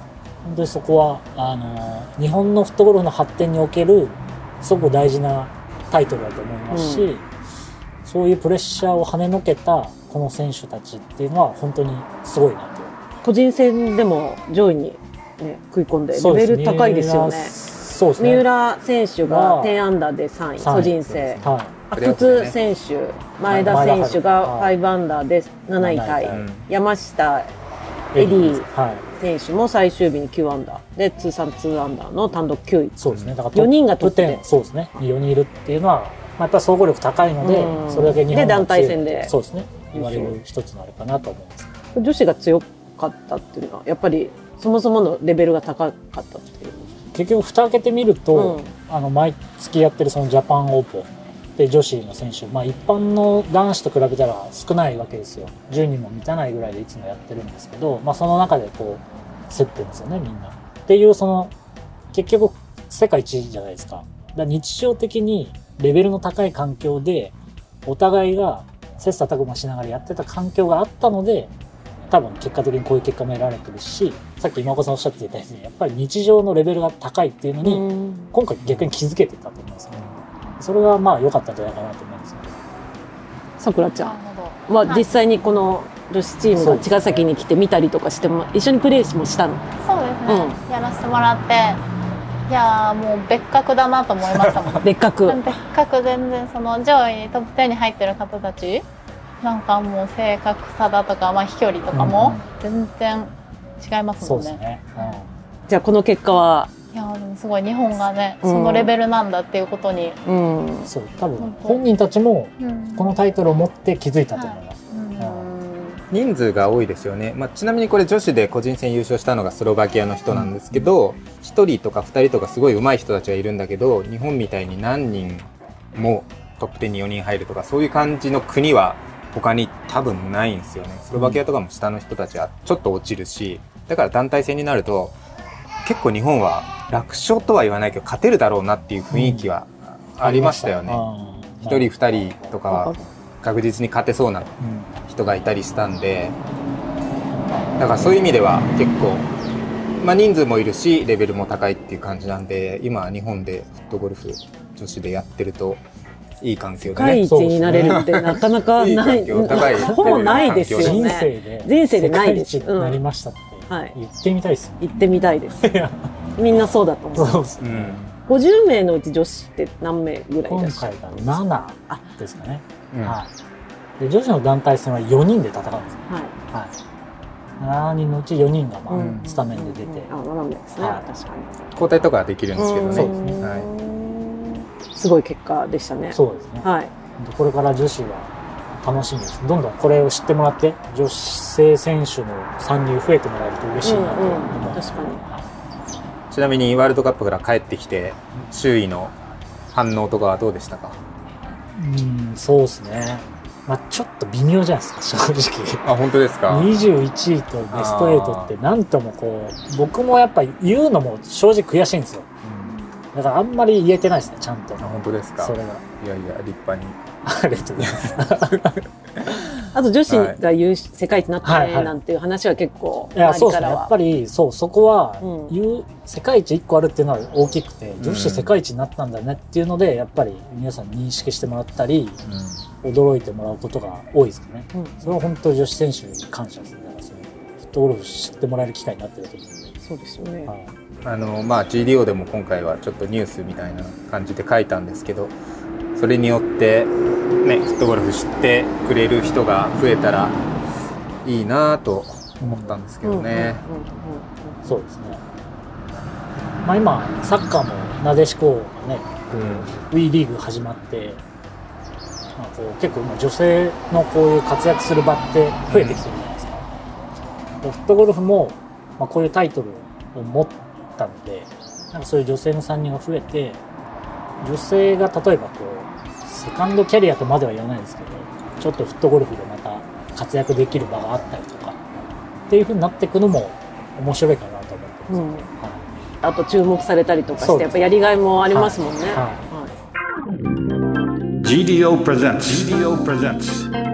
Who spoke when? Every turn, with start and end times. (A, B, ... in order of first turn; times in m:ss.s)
0:00.4-0:07.3 A
0:06.7-0:07.1 B
0:08.0-0:12.9 A
0:13.2-0:17.5 B
0:16.1-0:18.4 A
0:18.2-0:27.5 B
0:19.2-0:19.8 A
0:20.6-0:21.7 A
0:20.7-0:22.6 C
0:23.5-0:24.7 A
0:23.5-0:23.8 C
0:25.8-0:26.5 A
0:26.3-0:26.7 C
0:28.1-0:29.0 A
0:28.1-0:28.7 B
0:29.2-0:33.0 B
0:33.0-0:41.7 A
0:33.5-0:34.4 B
0:37.4-0:39.3 B
0:39.9-0:40.3 B
0:41.9-0:46.9 B
0:47.1-1:01.5 A
0:48.3-0:48.7 B
1:02.1-1:07.3 A
1:07.8-1:11.5 A
1:12.1-1:22.6 A
1:17.6-1:18.3 B
1:23.6-1:24.2 B
1:24.0-1:25.1 D
1:24.7-1:29.6 B
1:26.5-1:27.3 A
1:29.8-1:31.8 D
1:30.2-1:30.6 B
1:32.5-1:38.8 D
1:34.3-1:34.8 A
1:34.8-1:35.5 B
1:39.4-1:45.2 D
1:41.9-1:42.4 A
1:44.2-1:45.3 A
1:45.7-1:46.7 B
1:46.9-1:50.2 D
1:48.4-1:48.9 B
1:50.2-1:50.9 B
1:50.8-1:55.5 A
1:51.4-1:51.8 D
1:52.6-1:53.1 D
1:54.3-1:55.5 D
1:55.5-1:56.0 B
1:56.1-2:15.2 C
2:00.3-2:00.9 A
2:11.1-2:11.4 A
2:15.8-2:21.0 C
2:19.1-2:19.5 A
2:20.2-2:21.9 A
2:21.6-2:26.4 C
2:22.7-2:23.0 A
2:24.6-2:24.9 A
2:27.8-2:29.3 C
2:30.0-2:35.8 C
2:36.4-2:41.1 C
2:36.8-2:43.0 B
2:37.0-2:38.1 A
2:39.7-2:45.0 A
2:43.7-2:44.0 B
2:44.8-2:45.7 B
2:45.6-2:46.1 A
2:46.4-2:47.4 B
2:47.1-2:48.0 A
2:47.6-2:48.2 C
2:48.3-2:52.0 B
2:50.5-2:53.3 A
2:52.9-2:53.2 C
2:54.0-2:56.7 A
2:56.1-2:56.3 B
2:57.6-3:00.1 A
2:58.9-3:01.9 B
2:58.9-2:59.2 C
3:01.7-3:03.7 C
3:02.5-3:06.9 B
3:02.9-3:03.4 A
3:06.1-3:08.3 A
3:08.8-3:15.4 A
3:13.8-3:15.2 B
3:16.3-3:19.1 C
3:19.7-3:21.0 C
3:21.7-3:25.9 A
3:25.8-3:26.7 C
3:26.5-3:32.3 A
3:27.7-3:28.5 C
3:32.4-3:32.8 C
3:33.1-3:35.8 A
3:34.8-3:37.0 C
3:37.2-3:38.8 A
3:37.8-3:38.8 C
3:39.7-3:43.9 B
3:40.1-3:40.4 C
3:41.4-3:41.9 A
3:43.1-3:52.2 A
3:45.2-3:45.6 B
3:48.0-3:48.5 C
3:52.2-3:52.6 C
3:52.8-3:59.7 A
3:54.7-3:55.0 B
3:59.8-4:00.5 B
4:00.5-4:00.7 A
4:01.0-4:05.3 C
4:05.9-4:10.4 C
4:11.2-4:13.6 C
4:12.4-4:12.8 A
4:13.0-4:14.6 B
4:14.6-4:15.2 A
4:16.6-4:21.2 A
4:19.3-4:19.7 C
4:22.4-4:26.7 A
4:25.7-4:26.0 C
4:27.6-4:33.6 A
4:34.4-4:41.8 A
4:42.5-4:45.9 A
4:45.1-4:45.5 B
4:46.2-4:49.7 B
4:47.4-4:47.9 A
4:48.5-4:49.4 A
4:51.4-4:53.7 E